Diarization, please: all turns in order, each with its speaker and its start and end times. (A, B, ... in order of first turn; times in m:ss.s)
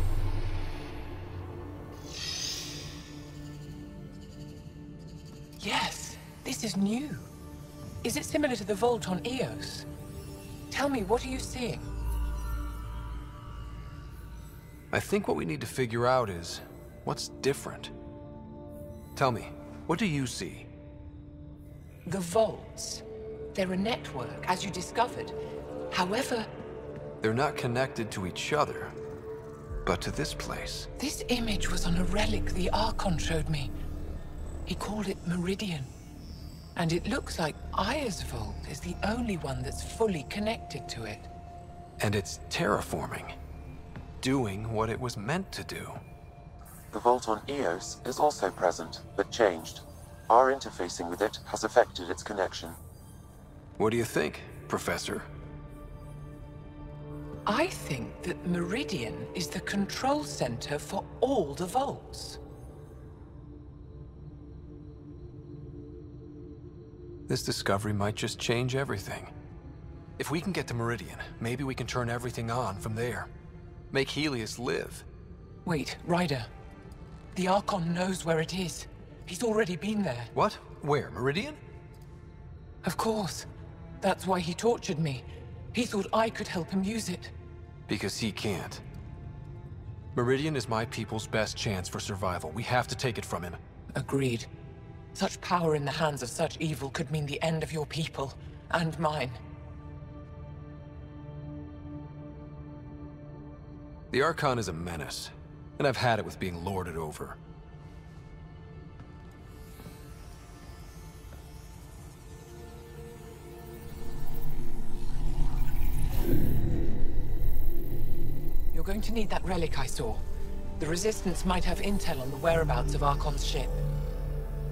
0:05.6-0:07.3 A
0:08.0-0:09.9 A
0:10.7-0:11.9 A
0:14.9-0:17.9 B
0:19.2-0:20.7 B
0:22.0-0:25.4 A
0:25.9-0:26.5 A
0:27.2-0:28.9 B
0:29.8-0:30.9 B
0:31.0-0:33.7 A
0:34.7-0:35.9 A
0:36.8-0:41.3 A
0:42.0-0:43.4 B
0:44.2-0:46.0 B
0:46.9-0:52.8 C
0:53.8-0:55.3 B
0:57.5-1:02.4 A
1:07.3-1:09.3 B
1:10.2-1:13.3 B
1:13.9-1:15.1 B
1:15.6-1:16.5 A
1:17.3-1:20.3 A
1:20.4-1:21.6 B
1:22.8-1:23.5 A
1:24.0-1:27.3 A
1:27.9-1:28.8 B
1:30.2-1:33.6 B
1:34.0-1:34.5 A
1:35.2-1:39.4 A
1:44.1-1:47.4 B
1:58.7-2:00.2 A
2:00.8-2:03.8 A